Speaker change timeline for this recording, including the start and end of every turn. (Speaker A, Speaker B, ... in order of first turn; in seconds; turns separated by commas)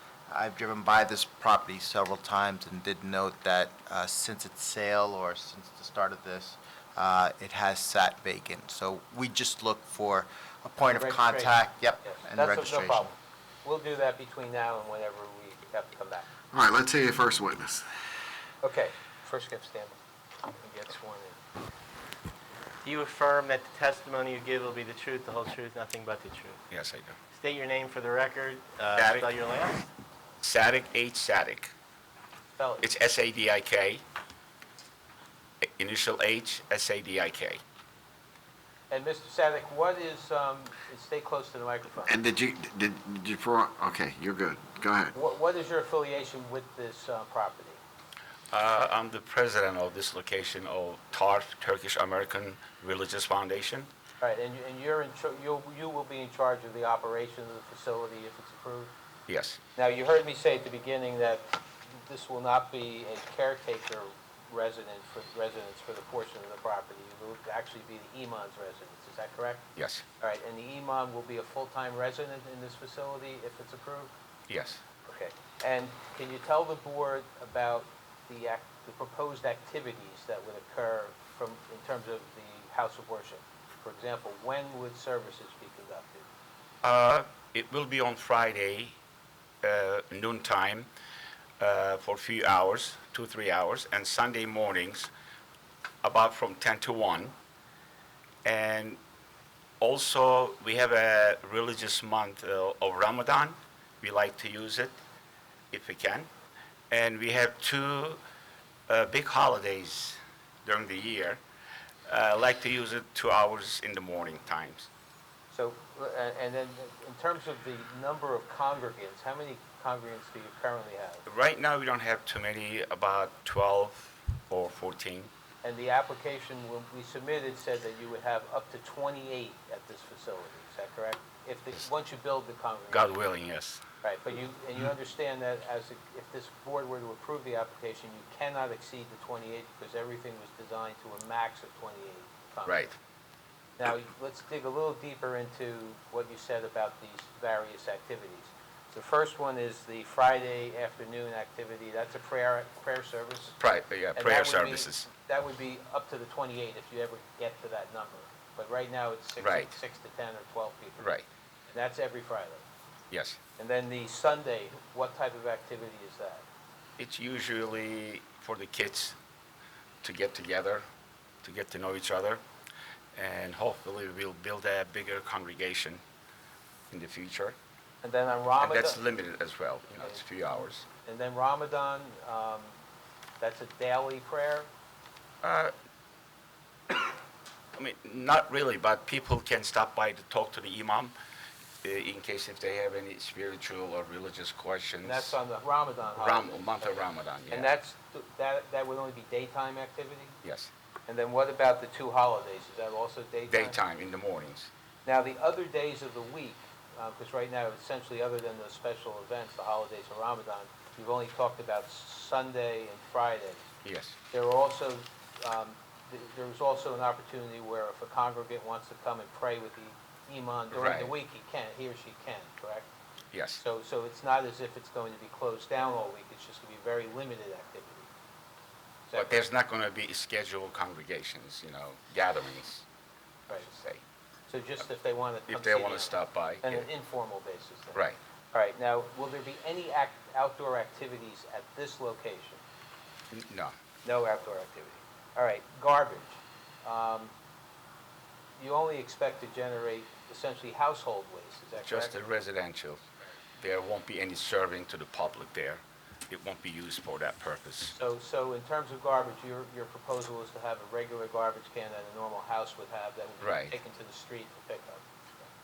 Speaker A: 0.3-13.1, Speaker B: 11.0-16.3, Speaker C: 16.5-17.9, Speaker B: 18.6-20.0, Speaker B: 20.5-21.4, Speaker D: 22.8-26.6, Speaker E: 26.7-27.1, Speaker D: 27.3-29.9, Speaker E: 29.0-29.3, Speaker E: 30.4-31.7, Speaker B: 32.6-32.9, Speaker E: 32.8-34.0, Speaker E: 35.8-37.6, Speaker B: 38.9-42.2, Speaker C: 42.1-45.1, Speaker B: 45.1-47.8, Speaker E: 48.5-53.9, Speaker B: 54.2-58.9, Speaker E: 59.3-59.6, Speaker B: 59.8-69.7, Speaker E: 69.8-70.0, Speaker B: 70.2-74.1, Speaker E: 74.5-74.8, Speaker B: 75.0-86.3, Speaker E: 86.8-89.0, Speaker E: 89.6-90.9, Speaker E: 91.6-95.1, Speaker E: 96.0-97.3, Speaker E: 98.5-99.0, Speaker E: 99.8-105.0, Speaker E: 105.7-106.3, Speaker E: 106.9-108.2, Speaker E: 108.9-111.4, Speaker E: 112.1-114.9, Speaker B: 115.5-121.2, Speaker E: 121.3-125.3, Speaker B: 125.6-133.1, Speaker E: 132.9-133.8, Speaker B: 134.0-142.9, Speaker E: 142.7-143.0, Speaker B: 143.8-153.6, Speaker E: 153.6-155.1, Speaker B: 154.2-161.2, Speaker E: 159.4-159.7, Speaker E: 161.0-161.3, Speaker B: 161.7-162.7, Speaker E: 163.1-163.4, Speaker B: 163.6-166.4, Speaker E: 167.0-169.2, Speaker E: 170.0-170.8, Speaker E: 171.4-172.4, Speaker E: 173.2-176.0, Speaker E: 176.9-177.6, Speaker B: 178.0-179.0, Speaker E: 178.6-180.8, Speaker B: 179.9-180.2, Speaker B: 181.0-182.8, Speaker B: 183.4-184.7, Speaker E: 185.4-185.7, Speaker E: 187.8-191.1, Speaker E: 191.8-195.4, Speaker B: 195.0-200.4, Speaker E: 196.1-197.7, Speaker E: 200.4-200.7, Speaker B: 201.1-203.8, Speaker E: 203.5-204.7, Speaker B: 205.1-213.7, Speaker E: 213.8-214.2, Speaker B: 214.3-222.9, Speaker E: 220.7-221.1, Speaker E: 223.3-223.6, Speaker B: 223.6-228.1, Speaker B: 229.1-229.4, Speaker E: 229.1-232.8, Speaker E: 233.5-234.0, Speaker B: 234.5-238.0, Speaker E: 235.5-236.9, Speaker B: 238.5-242.6, Speaker E: 243.3-243.8, Speaker B: 244.1-247.3, Speaker B: 248.6-252.2, Speaker E: 251.8-253.0, Speaker E: 253.6-257.9, Speaker B: 257.9-265.1, Speaker E: 263.4-263.8